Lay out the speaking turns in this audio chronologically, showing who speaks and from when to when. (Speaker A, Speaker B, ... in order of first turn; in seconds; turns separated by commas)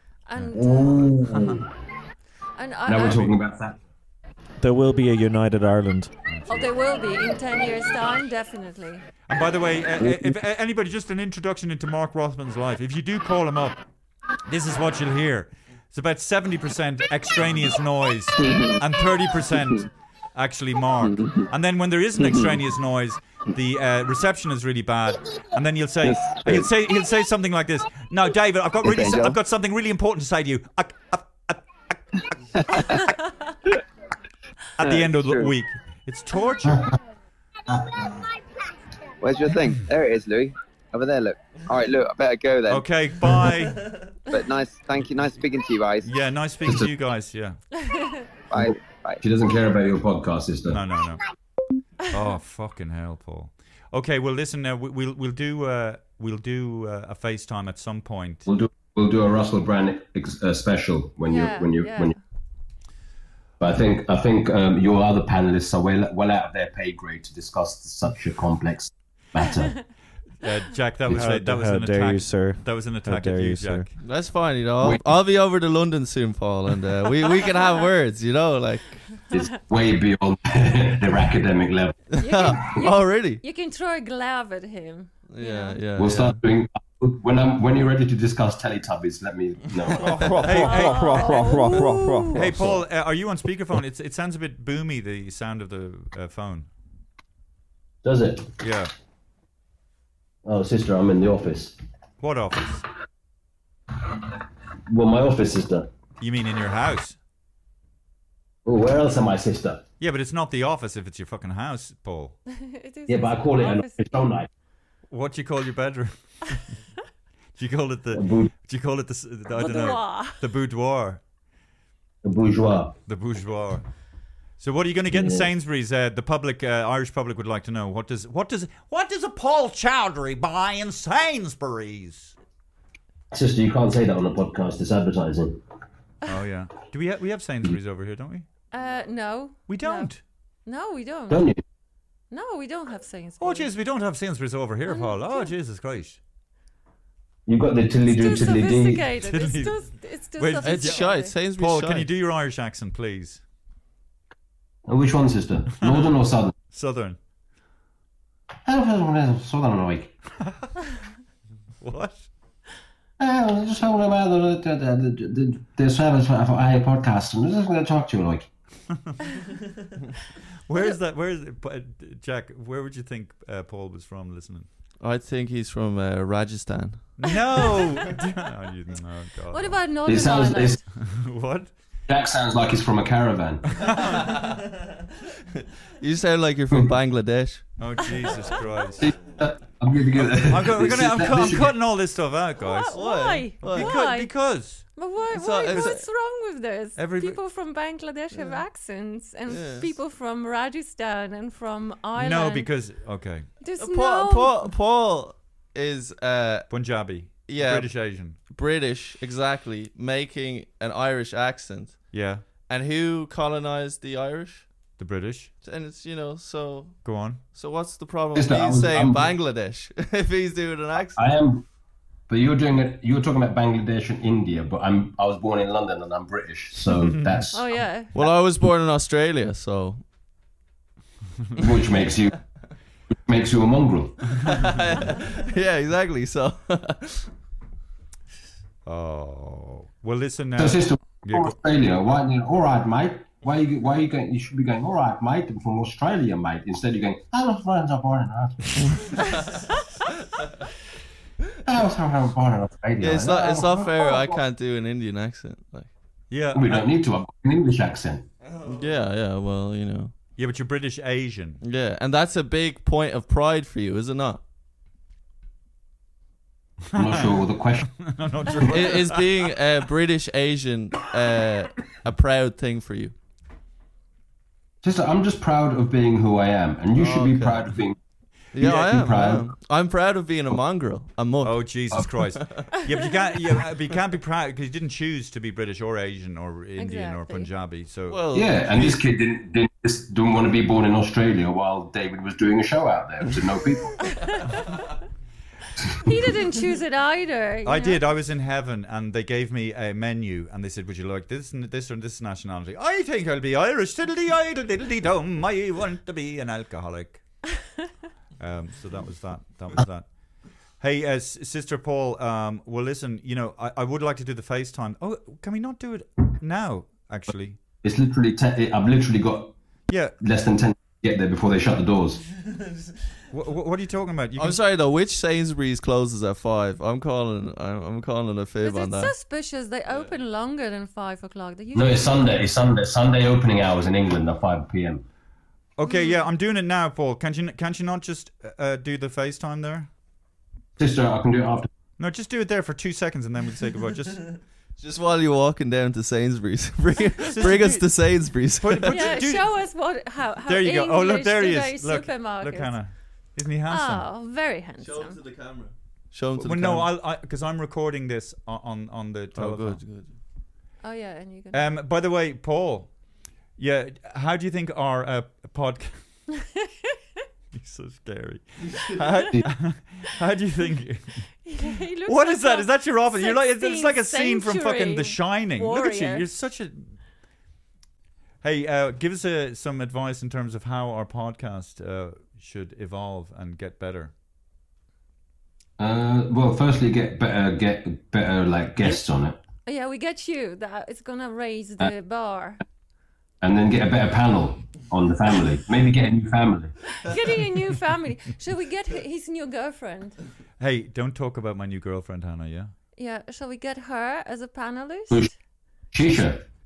Speaker A: 0.3-1.1, Speaker B: 0.4-1.6, Speaker C: 0.5-1.7, Speaker A: 2.6-3.3, Speaker C: 2.9-3.8, Speaker D: 4.6-6.1, Speaker B: 6.3-6.7, Speaker A: 6.5-9.1, Speaker B: 9.3-13.8, Speaker C: 10.0-10.3, Speaker B: 14.5-31.6, Speaker E: 18.4-18.8, Speaker E: 21.0-21.5, Speaker E: 22.2-22.6, Speaker E: 26.0-26.7, Speaker E: 28.8-29.4, Speaker E: 32.7-33.0, Speaker B: 34.8-36.9, Speaker E: 34.8-35.5, Speaker C: 36.7-37.0, Speaker C: 37.7-38.0, Speaker E: 39.2-42.9, Speaker B: 42.7-43.9, Speaker E: 44.3-46.1, Speaker B: 46.0-47.6, Speaker C: 46.6-46.9, Speaker A: 47.8-48.2, Speaker E: 48.5-49.2, Speaker C: 48.6-50.8, Speaker B: 50.7-51.2, Speaker B: 52.1-58.5, Speaker C: 58.5-62.2, Speaker A: 61.3-62.2, Speaker C: 63.6-69.9, Speaker B: 70.4-73.9, Speaker D: 71.1-73.9, Speaker F: 74.0-79.3, Speaker C: 79.3-82.0, Speaker F: 82.2-83.4, Speaker A: 82.2-85.8, Speaker F: 85.3-86.4, Speaker C: 86.0-90.4, Speaker D: 90.0-92.8, Speaker B: 90.1-96.7, Speaker A: 90.5-92.0, Speaker C: 98.0-98.5, Speaker B: 98.6-98.9, Speaker C: 100.5-101.8, Speaker B: 102.2-102.8, Speaker C: 104.9-105.9, Speaker B: 106.2-107.2, Speaker C: 108.7-109.8, Speaker B: 110.0-112.4, Speaker A: 112.5-114.2, Speaker C: 113.1-114.5, Speaker B: 115.1-116.6, Speaker B: 117.6-121.2, Speaker C: 118.1-118.5, Speaker A: 119.5-120.4, Speaker C: 122.2-123.0, Speaker B: 123.1-123.8, Speaker B: 124.6-132.3, Speaker C: 125.1-125.5, Speaker C: 133.3-135.6, Speaker B: 136.3-138.5, Speaker A: 138.7-140.1, Speaker B: 139.7-140.2, Speaker A: 140.7-141.5, Speaker C: 141.3-141.6, Speaker A: 142.3-143.7, Speaker B: 143.4-146.2, Speaker A: 144.9-145.5, Speaker C: 147.5-149.1, Speaker A: 148.1-151.4, Speaker B: 149.2-149.9, Speaker B: 150.4-153.4, Speaker F: 150.6-152.1, Speaker C: 154.9-156.5, Speaker B: 155.8-156.2, Speaker B: 156.7-157.2, Speaker C: 158.7-160.2, Speaker B: 161.8-162.3, Speaker C: 163.2-168.5, Speaker B: 170.7-174.7, Speaker F: 175.0-177.2, Speaker B: 177.2-179.9, Speaker A: 179.5-180.8, Speaker C: 180.1-180.8, Speaker B: 180.9-181.7, Speaker C: 182.1-183.9, Speaker B: 183.8-184.4, Speaker F: 186.0-187.7, Speaker B: 187.8-189.3, Speaker C: 189.0-191.8, Speaker B: 190.2-195.0, Speaker A: 192.6-202.7, Speaker F: 192.9-193.9, Speaker F: 195.3-196.0, Speaker B: 195.7-196.0, Speaker B: 197.0-197.4, Speaker F: 198.3-198.6, Speaker F: 199.5-199.9, Speaker B: 202.2-203.5, Speaker A: 203.6-204.6, Speaker F: 203.8-206.7, Speaker B: 206.7-208.4, Speaker F: 207.5-214.7, Speaker B: 212.1-212.4, Speaker B: 215.0-215.5, Speaker F: 215.6-221.4, Speaker B: 217.0-217.4, Speaker C: 218.3-219.4, Speaker C: 221.1-221.7, Speaker C: 222.3-227.8, Speaker B: 227.0-227.4, Speaker A: 227.5-228.1, Speaker F: 228.1-230.0, Speaker C: 231.6-232.4, Speaker C: 233.1-234.3, Speaker F: 234.4-237.3, Speaker B: 238.9-241.6, Speaker C: 240.6-249.1, Speaker C: 251.7-254.4, Speaker F: 253.0-255.9, Speaker B: 256.3-256.9, Speaker C: 256.5-258.3, Speaker F: 258.6-260.1, Speaker B: 260.4-261.6, Speaker F: 261.6-264.4, Speaker C: 266.9-267.9, Speaker B: 266.9-269.2, Speaker F: 268.7-273.1, Speaker C: 274.8-278.0, Speaker F: 276.9-277.8, Speaker F: 278.5-281.8, Speaker C: 278.6-279.5, Speaker B: 281.4-288.4, Speaker A: 286.8-287.5, Speaker F: 288.1-289.0, Speaker C: 288.3-294.2, Speaker A: 294.1-294.8, Speaker A: 296.0-298.0, Speaker B: 297.6-307.2, Speaker B: 308.4-310.1, Speaker B: 310.8-317.6, Speaker C: 317.8-319.6, Speaker B: 319.9-320.2, Speaker C: 320.2-322.2, Speaker B: 323.3-324.6, Speaker F: 324.4-329.1, Speaker A: 328.6-332.5, Speaker C: 331.7-335.0, Speaker B: 335.8-339.9, Speaker A: 335.9-336.1, Speaker C: 340.8-341.7, Speaker B: 342.0-344.3, Speaker F: 344.8-349.1, Speaker B: 347.2-349.6, Speaker A: 348.9-352.8, Speaker B: 350.5-354.1, Speaker A: 353.7-355.2, Speaker F: 354.8-356.9, Speaker B: 356.4-359.8, Speaker F: 359.4-360.2, Speaker A: 360.8-361.7, Speaker B: 361.5-362.9, Speaker B: 363.6-366.0, Speaker B: 367.5-371.3, Speaker A: 371.4-376.3, Speaker B: 372.1-377.0, Speaker B: 378.4-384.1, Speaker C: 385.8-389.4, Speaker A: 389.7-392.6, Speaker C: 393.4-396.8, Speaker A: 396.9-400.2, Speaker B: 400.6-402.7, Speaker A: 403.0-405.3, Speaker C: 405.9-406.4